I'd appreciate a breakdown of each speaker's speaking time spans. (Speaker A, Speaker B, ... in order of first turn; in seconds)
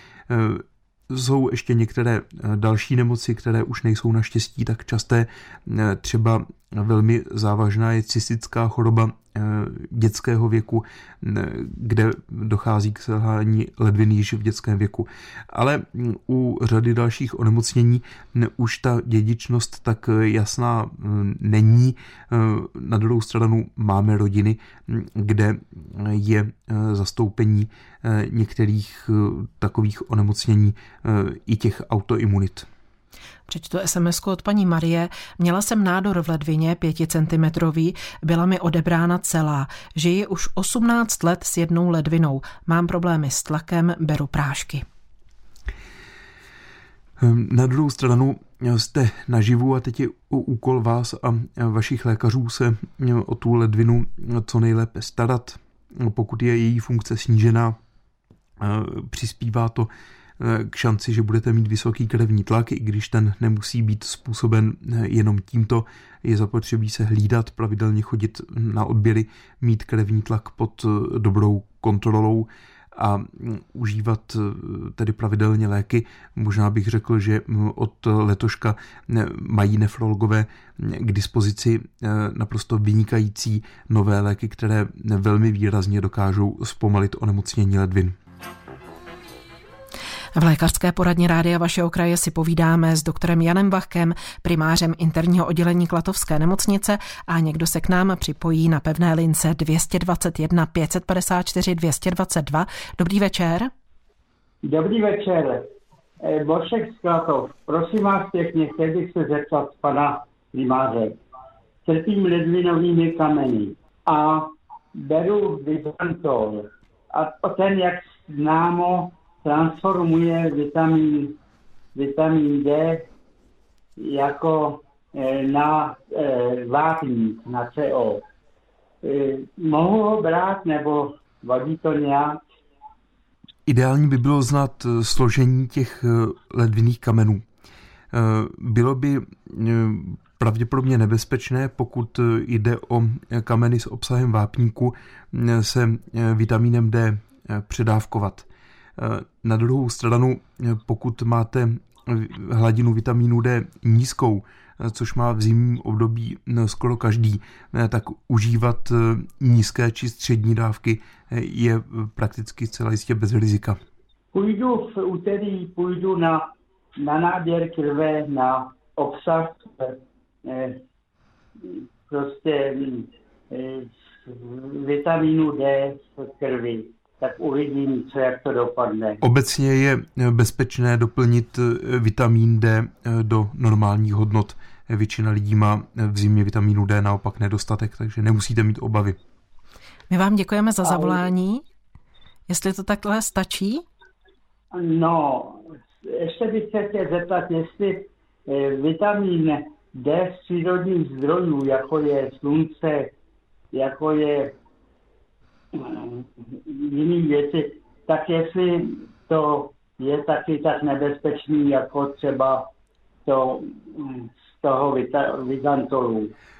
Speaker A: 0.3-32.7, 47.2-57.8, 58.6-88.2, 133.7-137.4, 138.1-163.8, 179.2-189.2
Speaker B: 33.5-44.8, 90.3-103.7, 190.1-191.6, 192.5-193.8
Speaker C: 104.6-105.7, 106.2-111.2, 111.8-121.4, 121.9-123.1, 124.0-128.2, 129.0-132.4, 164.3-170.8, 171.6-179.2, 190.9-191.2, 194.7-203.1, 203.7-204.5, 205.7-212.7, 213.2-216.3